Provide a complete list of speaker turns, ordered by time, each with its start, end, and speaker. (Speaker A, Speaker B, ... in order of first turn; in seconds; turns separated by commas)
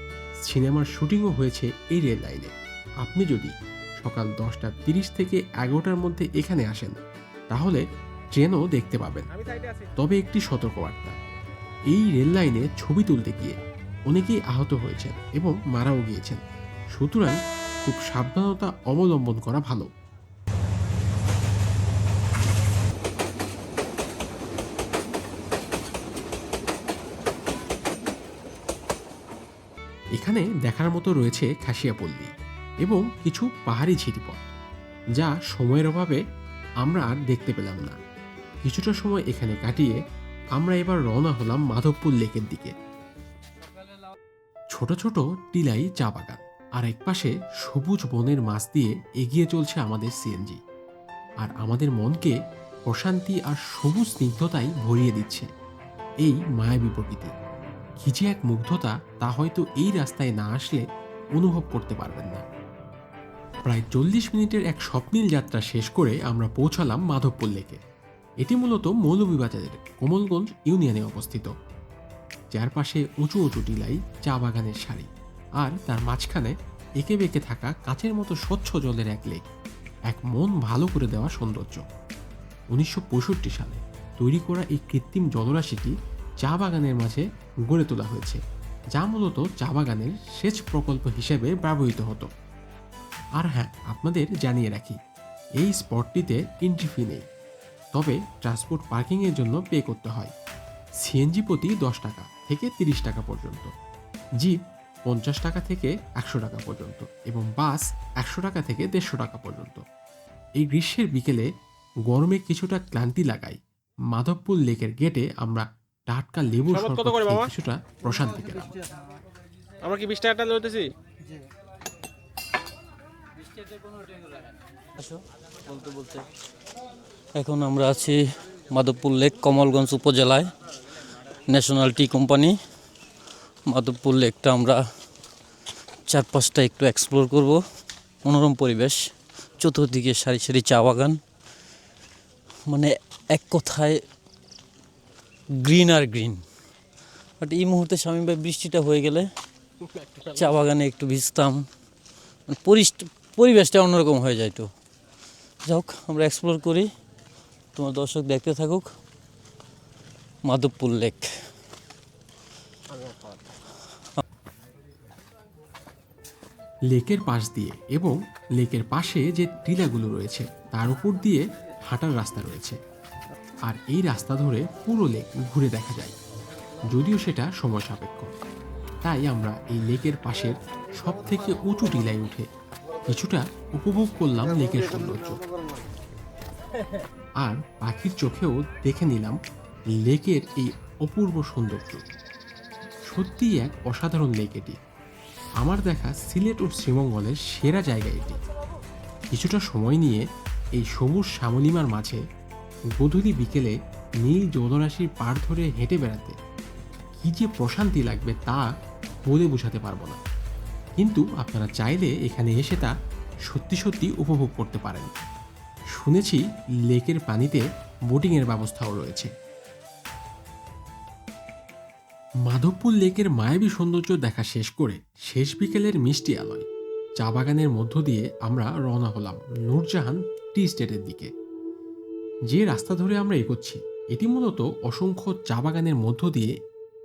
Speaker A: 0.5-7.0, Speaker A: 7.5-9.3, Speaker B: 9.3-9.9, Speaker A: 10.0-11.2, Speaker A: 11.9-13.6, Speaker A: 14.1-16.4, Speaker A: 16.9-19.9, Speaker A: 30.2-32.3, Speaker A: 32.8-34.5, Speaker A: 35.2-36.2, Speaker A: 36.8-38.0, Speaker A: 38.6-40.0, Speaker A: 40.5-42.7, Speaker A: 44.7-50.6, Speaker A: 51.4-55.5, Speaker A: 56.2-57.3, Speaker A: 58.0-60.9, Speaker A: 61.4-62.4, Speaker A: 63.7-67.8, Speaker A: 68.4-71.5, Speaker A: 72.5-79.4, Speaker A: 80.1-81.8, Speaker A: 82.7-88.4, Speaker A: 89.0-92.3, Speaker A: 93.4-95.0, Speaker A: 95.6-97.3, Speaker A: 97.9-100.3, Speaker A: 101.0-103.7, Speaker A: 104.4-109.8, Speaker A: 110.6-111.5, Speaker A: 112.1-113.6, Speaker A: 114.1-118.8, Speaker B: 116.7-117.5, Speaker B: 119.8-120.8, Speaker C: 125.0-126.2, Speaker C: 127.4-128.2, Speaker C: 128.7-130.5, Speaker C: 131.5-132.6, Speaker C: 133.7-134.8, Speaker C: 136.1-137.6, Speaker C: 138.2-139.0, Speaker C: 139.6-141.2, Speaker C: 142.7-144.0, Speaker C: 145.6-146.4, Speaker C: 147.4-149.3, Speaker B: 149.8-150.6, Speaker C: 150.4-151.7, Speaker C: 152.5-154.7, Speaker C: 155.7-156.9, Speaker C: 157.8-158.9, Speaker C: 160.4-161.3, Speaker B: 162.9-163.4, Speaker A: 166.9-172.8, Speaker A: 173.7-176.2, Speaker A: 176.9-178.4, Speaker A: 179.0-182.5, Speaker A: 183.1-185.4, Speaker A: 187.4-189.4, Speaker A: 189.9-192.1, Speaker A: 193.1-194.8, Speaker A: 195.6-198.4, Speaker A: 199.3-200.2, Speaker A: 200.8-202.2, Speaker A: 203.0-206.4, Speaker A: 207.2-208.7, Speaker A: 209.3-210.2, Speaker A: 211.0-212.9, Speaker A: 213.5-215.1, Speaker A: 215.9-219.3, Speaker A: 222.5-226.7, Speaker A: 227.2-231.3, Speaker A: 232.5-236.5